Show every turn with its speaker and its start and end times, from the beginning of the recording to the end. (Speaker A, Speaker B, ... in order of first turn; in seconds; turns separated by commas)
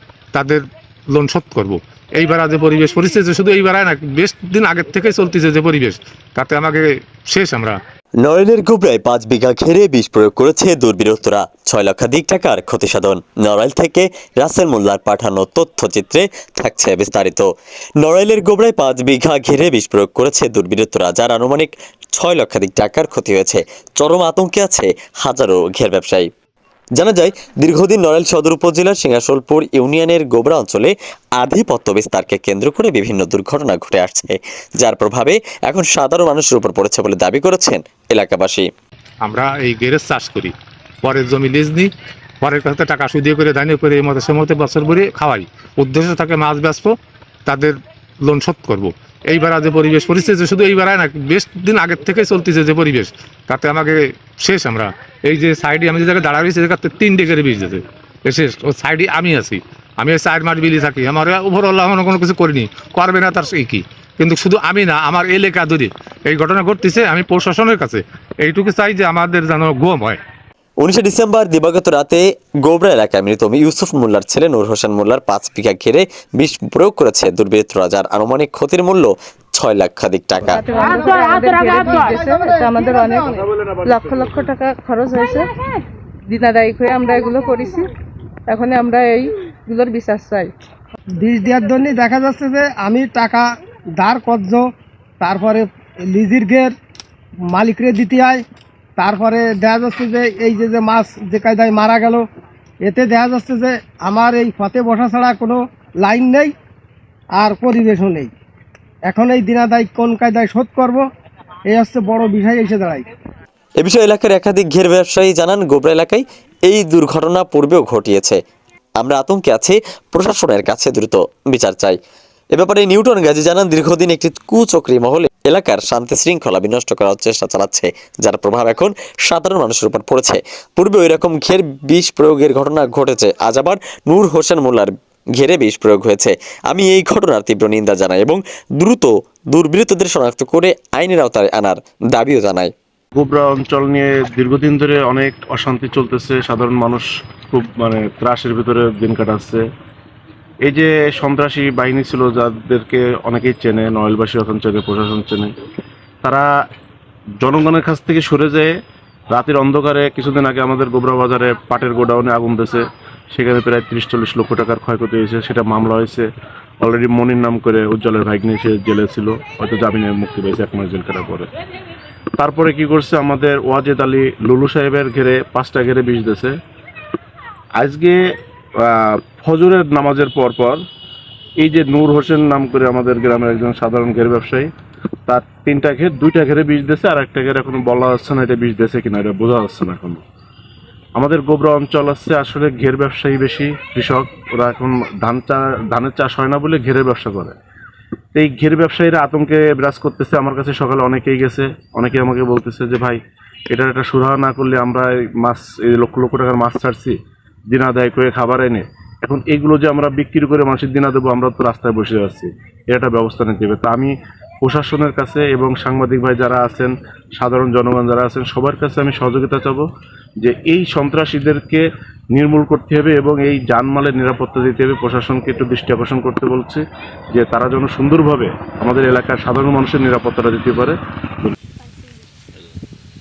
Speaker A: 0.3-7.8, Speaker B: 8.2-17.5, Speaker B: 18.0-26.3, Speaker B: 26.9-38.7, Speaker A: 39.2-41.9, Speaker A: 42.4-46.9, Speaker A: 47.5-70.2, Speaker B: 70.8-80.6, Speaker C: 80.5-85.5, Speaker D: 82.3-83.5, Speaker C: 86.3-87.9, Speaker C: 88.5-90.5, Speaker D: 91.2-93.5, Speaker D: 94.0-94.7, Speaker D: 95.2-96.7, Speaker D: 97.5-98.4, Speaker D: 99.0-102.2, Speaker D: 102.8-106.5, Speaker D: 107.3-108.3, Speaker D: 109.1-111.0, Speaker D: 111.7-113.0, Speaker B: 113.8-118.4, Speaker B: 119.0-122.0, Speaker B: 122.5-142.7, Speaker E: 143.2-149.6, Speaker E: 150.7-155.5, Speaker E: 156.2-156.5, Speaker E: 157.4-158.7, Speaker E: 159.3-166.3, Speaker E: 166.8-171.5, Speaker E: 172.4-176.5, Speaker E: 177.8-178.2, Speaker E: 178.8-180.8, Speaker E: 181.6-184.7, Speaker E: 185.3-190.2, Speaker E: 191.2-197.6, Speaker E: 198.3-203.2, Speaker E: 203.7-207.2, Speaker E: 207.7-219.9, Speaker E: 220.4-221.8, Speaker E: 222.3-226.8, Speaker E: 227.3-231.6